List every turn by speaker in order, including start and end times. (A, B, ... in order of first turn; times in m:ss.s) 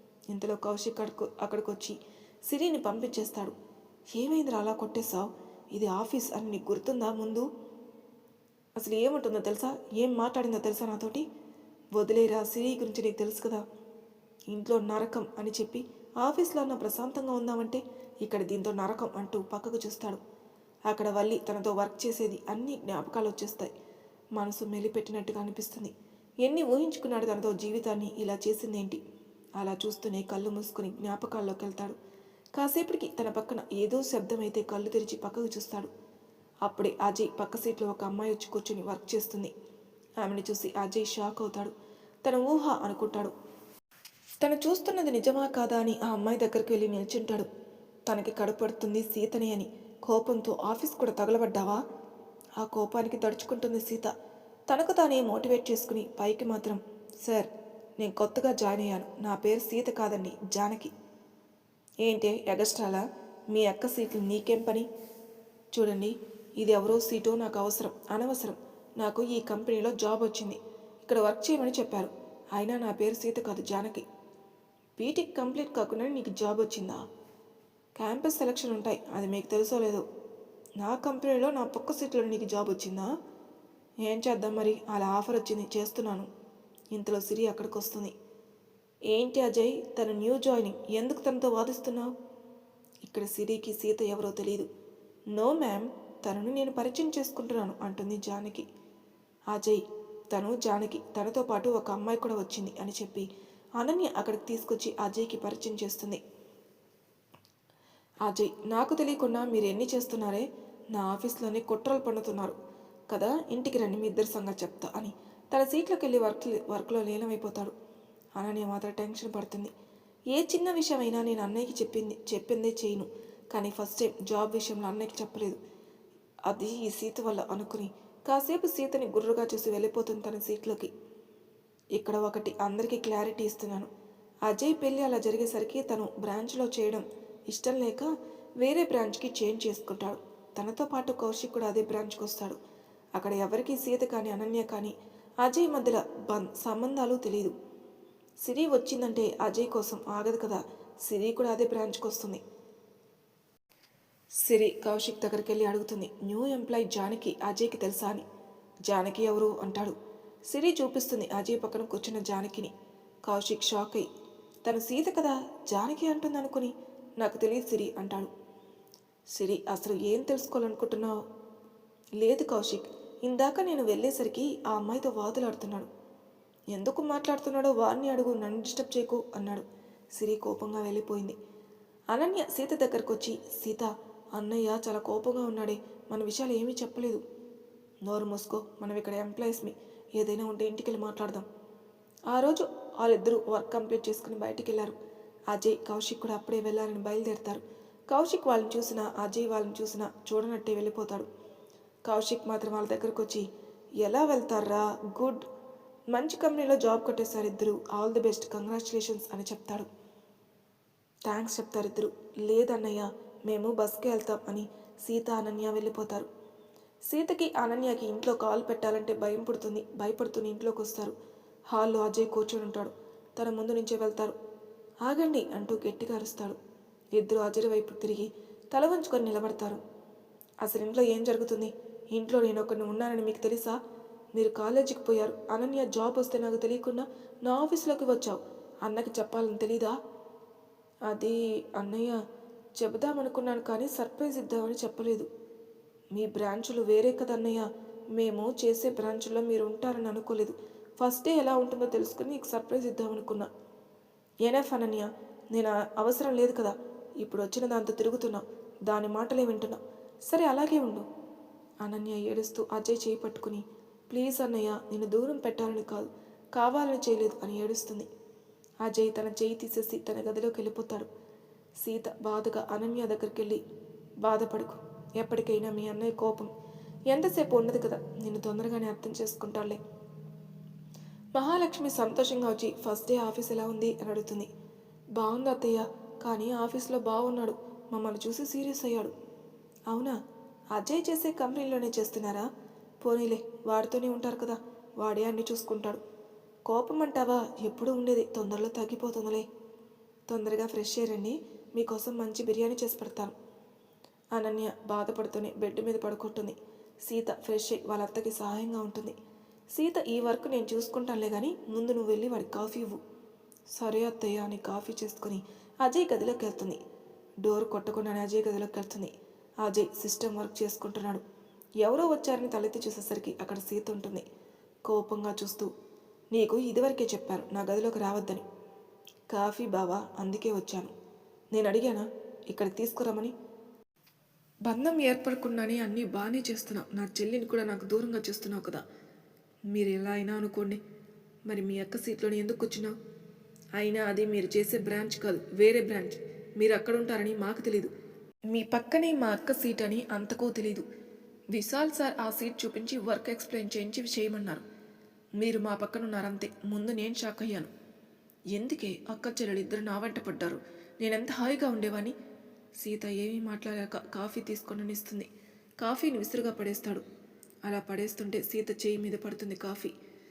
0:00.3-0:02.0 A
0:02.5-0:03.6 A
0:04.1-0:07.5 A
0:08.8-0:11.2 A
0:12.0-0:13.6 A
0:14.5-0:20.2 A
0:20.9-0:23.7 A
0:24.4-0:25.9 A
0:26.4-0:29.0 A
0:29.6-0:32.0 A
0:32.6-0:35.9 A
0:36.7-0:39.5 A
0:40.2-0:41.7 A
0:42.2-0:43.3 A
0:44.4-0:47.5 A
0:48.1-0:51.8 A
0:52.6-0:54.1 A
0:54.7-1:00.9 A
1:02.0-1:04.9 A
1:05.7-1:14.0 A
1:15.0-1:17.0 A
1:18.0-1:20.0 A
1:20.8-1:23.1 A
1:24.0-1:26.3 A
1:26.9-1:28.1 A
1:29.1-1:32.1 A
1:33.0-1:34.7 A
1:35.4-1:38.7 A
1:39.5-1:43.2 A
1:43.8-1:46.2 A
1:48.2-1:52.6 A
1:53.1-1:57.7 A
1:58.4-1:59.7 A
2:00.3-2:05.6 A
2:06.5-2:10.9 A
2:12.0-2:13.9 A
2:14.5-2:18.1 A
2:18.6-2:22.6 A
2:23.2-2:27.5 A
2:28.4-2:32.4 A
2:34.4-2:38.2 A
2:38.9-2:40.0 A
2:40.5-2:42.7 A
2:43.2-2:44.1 A
2:44.6-2:48.3 A
2:49.4-2:51.2 A
2:52.2-2:55.9 A
2:56.7-2:59.6 A
3:00.2-3:01.4 A
3:02.1-3:07.2 A
3:08.1-3:11.5 A
3:12.3-3:15.0 A
3:15.5-3:21.3 A
3:22.1-3:23.5 A
3:24.0-3:25.4 A
3:26.1-3:29.9 A
3:31.3-3:36.3 A
3:37.1-3:41.2 A
3:41.7-3:44.3 A
3:45.1-3:46.6 A
3:47.2-3:49.8 A
3:50.6-3:53.8 A
3:54.4-4:00.0 A
4:01.1-4:02.2 A
4:02.8-4:05.3 A
4:06.2-4:13.5 A
4:14.4-4:21.1 A
4:21.8-4:28.1 A
4:28.8-4:31.1 A
4:31.8-4:33.6 A
4:34.2-4:36.5 A
4:37.1-4:39.8 A
4:41.4-4:44.5 A
4:45.2-4:49.1 A
4:49.9-4:50.2 A
4:50.7-4:52.5 A
4:53.0-4:56.0 A
4:56.7-4:59.5 A
5:00.3-5:03.3 A
5:04.3-5:09.2 A
5:09.7-5:13.0 A
5:13.7-5:16.8 A
5:17.4-5:19.1 A
5:19.6-5:21.2 A
5:21.8-5:24.2 A
5:24.9-5:25.7 A
5:26.3-5:28.4 A
5:29.3-5:30.9 A
5:31.5-5:33.3 A
5:34.7-5:38.8 A
5:39.7-5:40.8 A
5:41.5-5:42.9 A
5:43.8-5:47.9 A
5:48.5-5:50.8 A
5:51.5-5:54.6 A
5:55.4-5:57.7 A
5:58.5-6:02.1 A
6:02.8-6:05.3 A
6:05.8-6:07.0 A
6:07.6-6:09.9 A